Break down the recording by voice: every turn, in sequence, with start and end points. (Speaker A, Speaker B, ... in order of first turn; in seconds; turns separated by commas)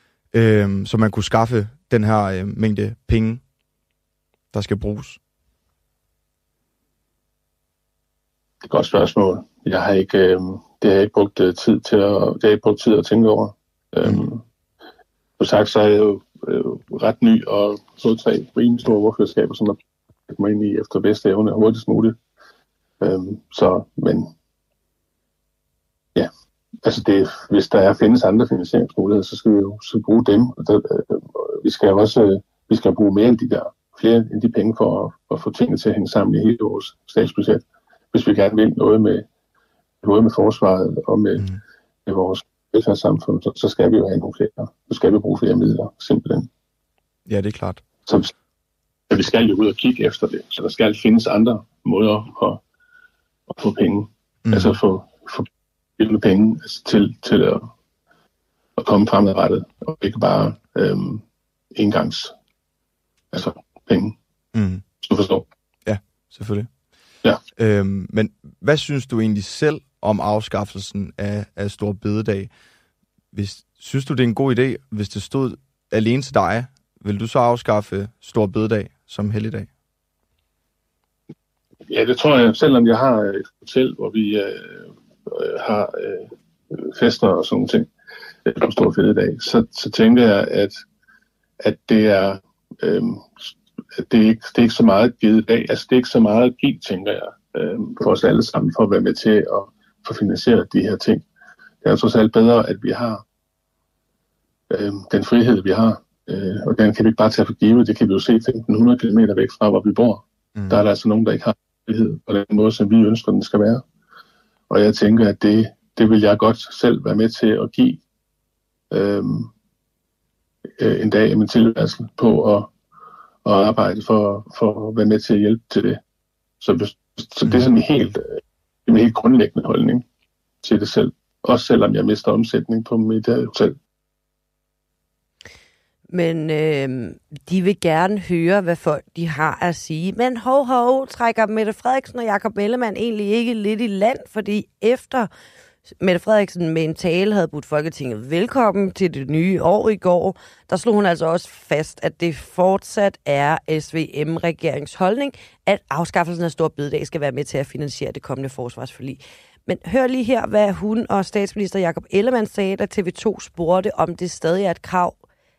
Speaker A: 0.3-3.4, Speaker A: 4.5-5.2, Speaker B: 8.6-14.4, Speaker B: 15.4-22.2, Speaker B: 23.0-24.3, Speaker B: 26.8-39.2, Speaker B: 40.0-41.5, Speaker B: 42.0-46.5, Speaker A: 47.3-47.8, Speaker B: 49.1-52.6, Speaker B: 53.5-55.5, Speaker A: 54.5-54.8, Speaker B: 56.0-57.7, Speaker B: 58.8-61.2, Speaker B: 61.7-62.3, Speaker B: 63.3-64.1, Speaker A: 64.5-64.8, Speaker B: 65.0-65.5, Speaker A: 65.8-66.7, Speaker A: 67.6-72.5, Speaker A: 73.3-79.7, Speaker B: 81.9-87.9, Speaker B: 88.5-90.8, Speaker B: 91.6-101.2, Speaker B: 101.8-103.2, Speaker B: 104.7-113.8, Speaker B: 114.7-118.0, Speaker B: 118.9-119.5, Speaker B: 120.8-122.7, Speaker B: 123.4-126.0, Speaker B: 126.6-130.0, Speaker B: 130.6-133.8, Speaker C: 136.1-145.3, Speaker C: 146.0-165.2